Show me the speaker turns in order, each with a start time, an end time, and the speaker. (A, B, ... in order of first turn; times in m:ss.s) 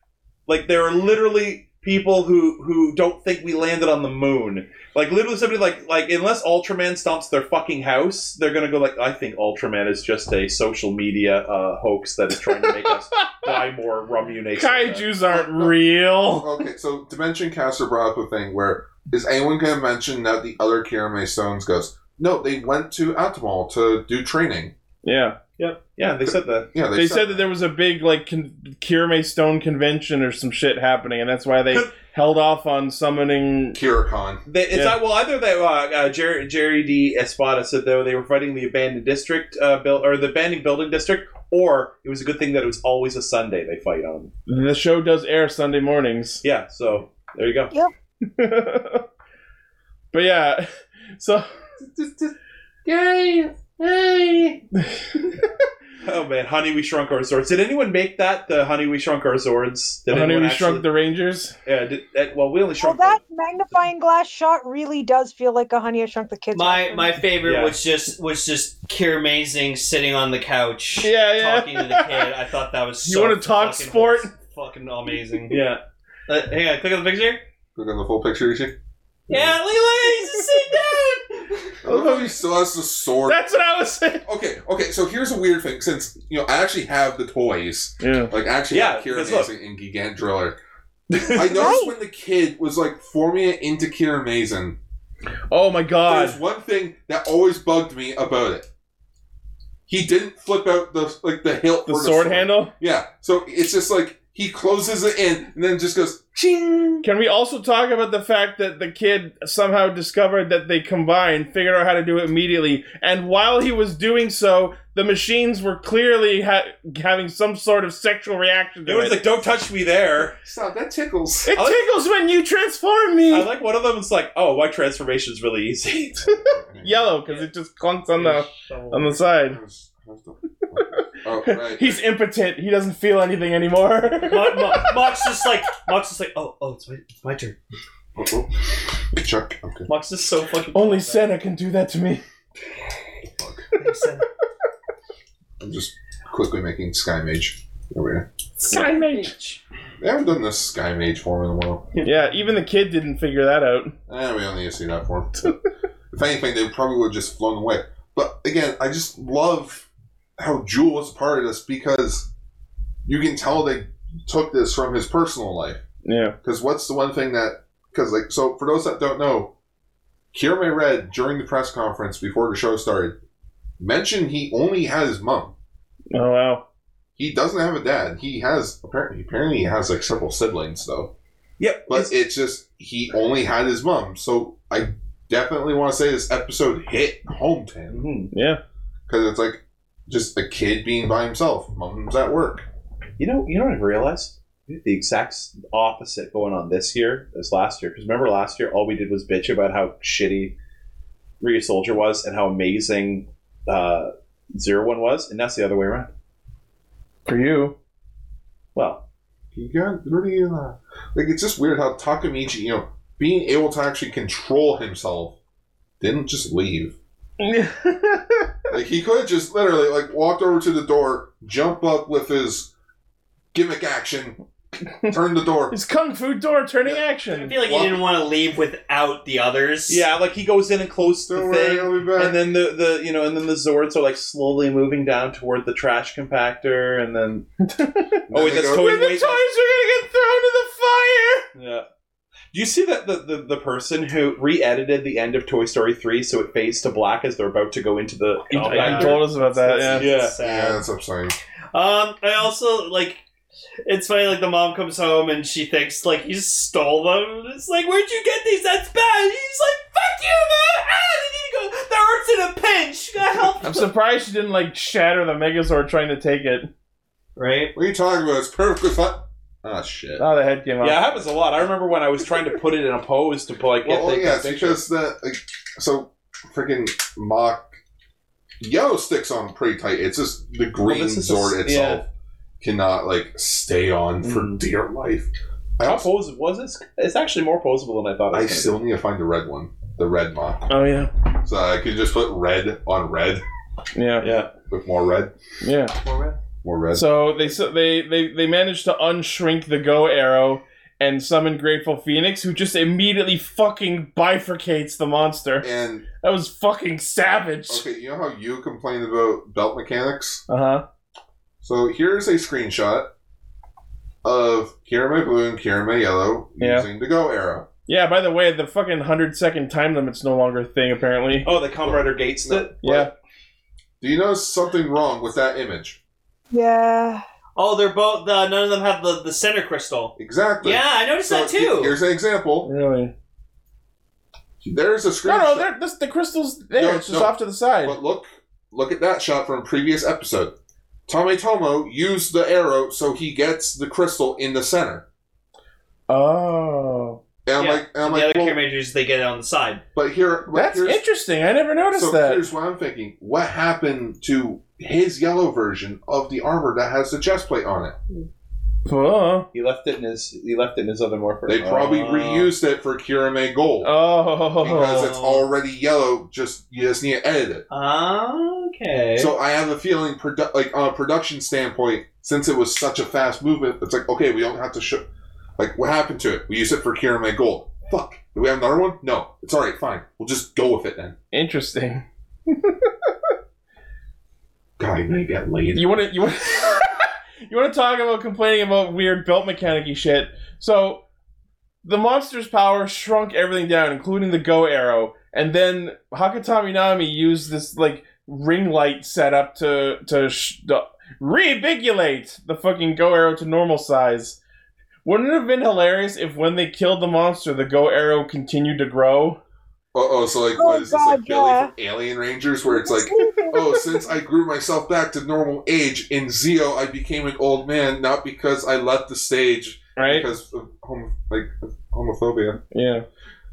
0:00.5-0:15.1 A
0:13.2-0:13.5 B
0:14.5-0:16.5 B
0:15.3-0:24.7 C
0:25.0-0:25.4 B
0:26.0-0:26.7 A
0:26.7-0:27.5 C
0:26.9-0:33.8 B
0:33.7-0:34.4 C
0:34.4-0:44.3 A
0:44.5-0:46.4 B
0:46.4-0:47.7 A
0:48.4-0:49.0 B
0:50.1-0:51.4 B
0:51.9-0:52.3 A
0:52.8-0:54.6 A
0:54.8-0:55.5 B
0:56.0-1:00.9 A
1:00.1-1:01.5 B
1:01.6-1:03.2 A
1:02.8-1:07.2 D
1:06.5-1:15.6 E
1:07.4-1:07.8 A
1:11.0-1:12.3 B
1:13.0-1:14.3 B
1:15.5-1:15.8 A
1:16.3-1:17.4 E
1:17.7-1:18.8 C
1:19.3-1:19.5 C
1:19.3-1:21.7 E
1:21.8-1:23.5 C
1:21.8-1:22.4 B
1:23.2-1:24.2 B
1:24.2-1:30.6 C
1:28.0-1:28.3 B
1:28.7-1:29.5 A
1:31.1-1:31.4 A
1:31.3-1:34.8 C
1:31.4-1:31.9 D
1:35.5-1:36.4 B
1:36.0-1:38.7 C
1:39.9-1:47.1 C
1:41.8-1:42.7 B
1:47.0-1:59.2 B
1:58.8-2:00.4 A
2:00.4-2:01.5 C
2:01.5-2:03.5 B
2:01.5-2:01.8 A
2:03.3-2:06.2 A
2:06.3-2:07.1 C
2:06.8-2:09.6 B
2:08.2-2:09.1 E
2:09.4-2:12.0 C
2:11.4-2:14.6 B
2:14.2-2:17.6 E
2:18.2-2:19.9 C
2:19.9-2:21.2 E
2:20.7-2:22.2 B
2:23.4-2:23.6 C
2:23.8-2:24.3 E
2:25.6-2:28.3 C
2:28.6-2:29.3 B
2:28.8-2:29.6 E
2:30.0-2:31.8 C
2:32.0-2:33.9 B
2:34.1-2:35.6 C
2:36.1-2:39.8 C
2:40.4-2:42.3 C
2:43.0-2:45.8 C
2:46.0-2:46.4 B
2:46.4-2:49.5 C
2:50.3-2:53.2 C
2:53.8-2:55.5 C
2:56.1-2:56.6 B
2:57.2-3:01.1 C
3:01.6-3:02.1 A
3:01.9-3:08.1 C
3:07.9-3:08.3 A
3:08.3-3:08.6 B
3:09.1-3:12.7 C
3:13.2-3:20.5 A
3:21.4-3:26.1 A
3:27.2-3:27.8 B
3:28.7-3:29.0 A
3:29.5-3:35.4 C
3:36.0-3:37.0 C
3:37.4-3:38.5 B
3:38.7-3:42.7 C
3:43.5-3:44.4 C
3:45.1-3:45.8 C
3:45.7-3:47.6 B
3:47.3-3:50.0 E
3:47.6-3:48.0 C
3:49.9-3:57.5 A
3:51.3-3:52.4 C
3:57.6-4:01.5 B
3:58.3-3:58.9 C
3:58.3-3:59.5 A
4:01.5-4:01.8 A
4:02.5-4:09.3 A
4:08.5-4:10.1 B
4:08.7-4:10.8 E
4:09.9-4:10.4 A
4:09.9-4:11.4 C
4:11.7-4:13.2 E
4:13.8-4:23.9 E
4:23.6-4:26.7 B
4:27.4-4:27.7 E
4:27.7-4:30.2 C
4:30.2-4:31.0 B
4:30.8-4:34.8 A
4:33.8-4:37.7 C
4:38.6-4:42.1 C
4:40.8-4:42.0 A
4:42.6-4:46.1 C
4:44.2-4:44.6 A
4:45.8-4:48.8 A
4:48.3-4:50.7 C
4:50.7-4:51.1 B
4:51.4-4:53.4 C
4:53.9-4:54.3 B
4:54.2-4:54.5 A
4:54.7-4:55.3 C
4:55.6-4:55.9 B
4:56.0-4:56.4 E
4:56.6-4:57.5 C
4:56.9-5:05.7 B
5:05.6-5:06.0 C
5:06.2-5:07.8 B
5:07.7-5:10.4 C
5:10.5-5:10.8 B
5:11.6-5:13.1 C
5:14.2-5:17.7 C
5:16.6-5:16.9 B
5:17.9-5:21.5 B
5:21.4-5:22.8 A
5:21.8-5:23.1 C
5:22.8-5:23.1 B
5:24.0-5:26.0 C
5:26.5-5:27.2 D
5:27.6-5:32.0 E
5:30.2-5:32.7 C
5:32.6-5:33.1 B
5:34.6-5:35.7 C
5:35.2-5:38.0 B
5:36.7-5:40.5 C
5:41.1-5:45.0 C
5:46.1-5:47.2 B
5:47.4-5:48.6 C
5:47.6-5:49.8 E
5:49.9-5:51.0 C
5:50.5-5:52.4 B
5:51.9-5:58.0 C
5:58.8-5:59.5 B
5:59.5-6:02.5 A
6:01.4-6:03.9 C
6:03.8-6:05.1 B
6:04.6-6:07.6 C
6:04.7-6:05.5 E
6:07.7-6:09.3 E
6:09.2-6:15.0 C
6:15.6-6:21.2 C
6:21.3-6:22.9 B
6:24.8-6:26.0 C
6:25.7-6:26.9 B
6:27.5-6:31.0 B
6:31.8-6:44.4 B
6:45.0-6:49.4 B
6:49.9-7:02.6 C
6:50.6-6:51.7 D
6:52.7-6:54.0 D
7:00.0-7:00.3 B
7:02.7-7:03.0 B